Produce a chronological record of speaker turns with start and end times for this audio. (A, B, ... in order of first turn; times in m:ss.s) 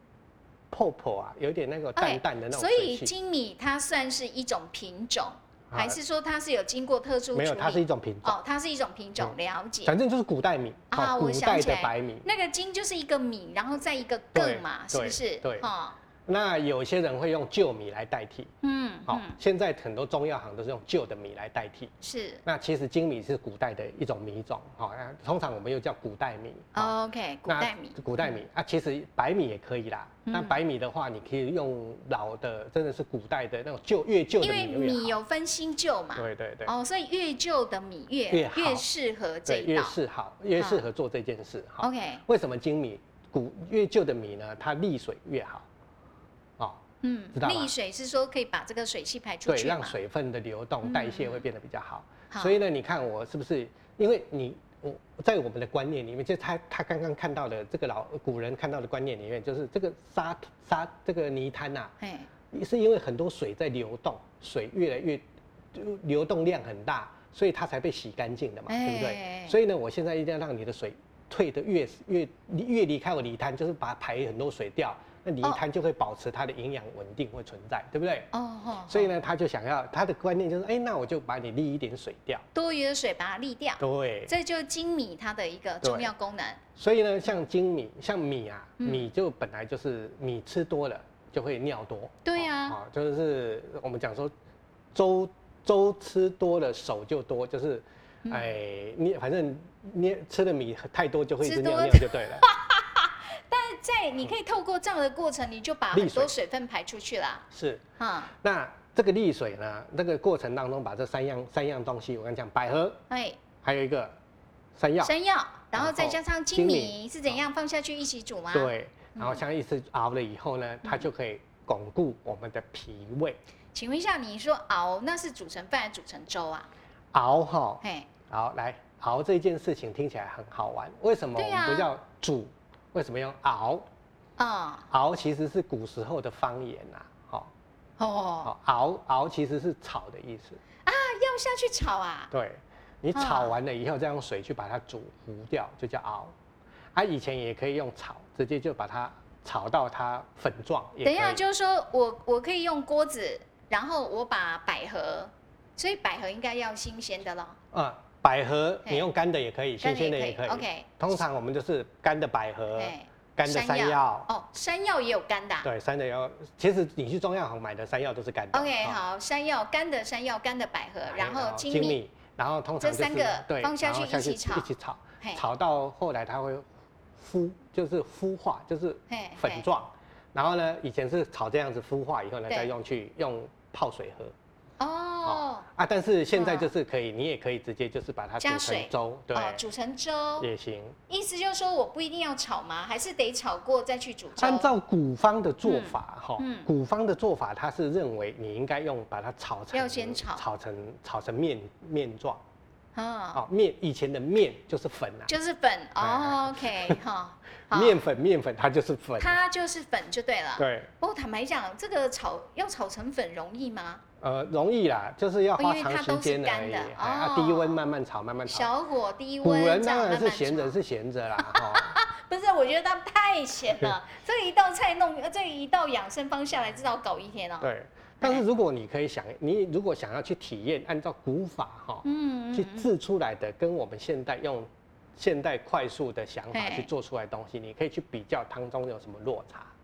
0:00.7-0:03.1 A
0:02.0-0:10.0 B
0:05.7-0:06.0 A
0:07.3-0:08.4 A
0:09.2-0:12.2 A
0:10.9-0:16.0 B
0:14.3-0:15.7 A
0:16.2-0:18.5 A
0:18.6-0:19.4 B
0:19.1-0:21.9 A
0:22.0-0:22.4 B
0:22.4-0:26.9 A
0:26.7-0:28.4 B
0:27.5-0:35.1 A
0:30.3-0:30.6 B
0:34.4-0:40.0 B
0:36.2-0:36.7 A
0:38.3-0:38.9 A
0:39.4-0:45.7 A
0:40.6-0:40.9 B
0:41.8-0:42.2 B
0:47.0-0:50.0 B
0:47.3-0:47.7 A
0:49.5-1:01.9 A
0:50.8-0:51.4 B
0:52.3-0:52.6 B
1:02.0-1:02.3 B
1:02.5-1:18.3 A
1:08.7-1:09.6 B
1:18.3-1:19.2 B
1:18.9-1:22.4 A
1:22.5-1:26.6 B
1:23.8-1:24.3 A
1:25.8-1:26.1 A
1:26.8-1:34.3 A
1:28.8-1:29.1 B
1:32.2-1:32.8 B
1:34.9-1:42.4 A
1:38.2-1:38.5 B
1:41.4-1:47.4 B
1:45.9-1:46.3 A
1:47.5-1:53.0 A
1:48.0-1:48.3 B
1:53.1-1:53.4 B
1:53.6-1:54.2 A
1:54.8-1:55.1 A
1:55.0-1:59.4 B
1:55.7-1:57.4 A
1:58.5-2:03.4 A
2:03.7-2:06.7 B
2:07.1-2:13.9 A
2:07.8-2:08.1 B
2:11.4-2:11.9 B
2:14.4-2:14.9 B
2:14.9-2:17.5 A
2:18.0-2:18.5 B
2:18.4-2:20.6 A
2:20.8-2:22.3 B
2:22.3-2:26.4 A
2:23.1-2:23.6 B
2:26.9-2:31.4 A
2:31.0-2:37.6 B
2:37.7-2:44.3 A
2:39.8-2:41.2 B
2:42.8-2:45.7 B
2:45.6-2:49.0 A
2:48.5-2:52.0 B
2:51.1-3:04.3 A
2:52.8-2:54.7 B
2:59.1-2:59.6 B
3:04.8-3:05.6 B
3:05.2-3:09.6 A
3:06.3-3:06.7 B
3:08.4-3:10.5 B
3:10.4-3:11.0 A
3:11.1-3:14.7 B
3:14.4-3:22.4 A
3:15.6-3:16.7 B
3:19.7-3:20.4 B
3:22.9-3:23.4 B
3:23.3-3:25.3 A
3:25.3-3:28.0 B
3:26.0-3:27.0 A
3:27.7-3:29.4 A
3:29.2-3:34.0 B
3:30.6-3:30.9 A
3:34.2-3:38.7 A
3:35.6-3:37.8 B
3:38.4-3:40.8 B
3:39.4-3:42.0 A
3:41.4-3:47.7 B
3:47.6-3:59.7 A
3:52.0-3:52.9 B
3:56.5-3:56.9 B